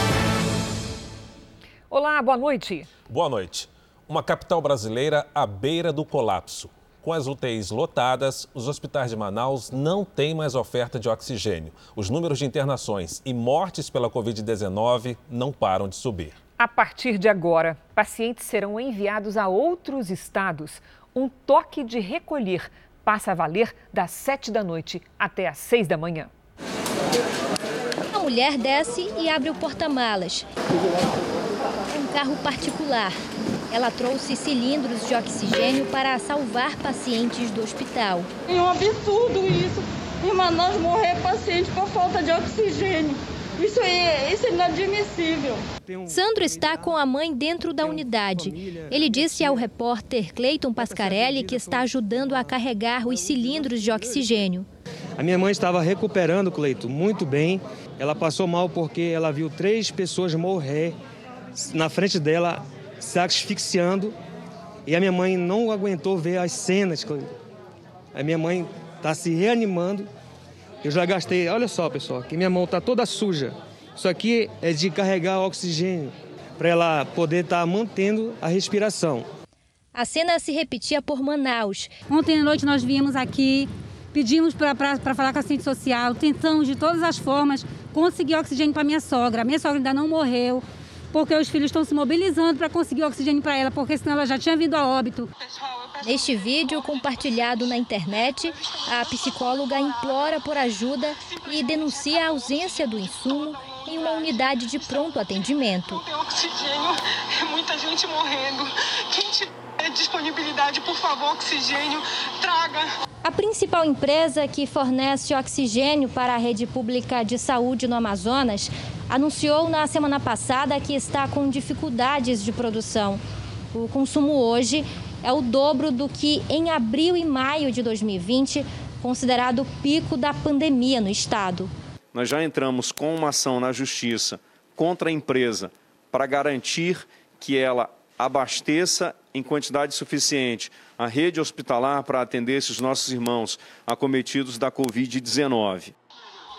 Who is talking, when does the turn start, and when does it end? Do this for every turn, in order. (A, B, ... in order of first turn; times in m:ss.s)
0:01.9-0:02.9 A
0:03.1-0:16.4 B
0:16.6-0:26.3 A
0:28.1-0:30.5 C
0:31.9-0:33.2 C
0:33.7-0:38.3 C
0:38.5-0:45.6 D
0:45.9-0:46.2 E
0:46.1-0:54.7 C
0:48.7-0:49.4 E
0:55.2-1:00.9 E
1:01.6-1:04.1 E
1:04.9-1:07.3 E
1:08.2-1:10.1 E
1:10.8-1:19.2 E
1:20.0-1:21.9 C
1:22.1-1:35.3 F
1:35.4-1:37.2 G
1:36.0-1:46.0 C
1:38.6-1:39.9 G
1:41.2-1:45.2 G
1:45.8-1:52.9 G
1:53.2-2:03.2 C
2:03.7-2:11.7 C
2:12.1-2:25.9 H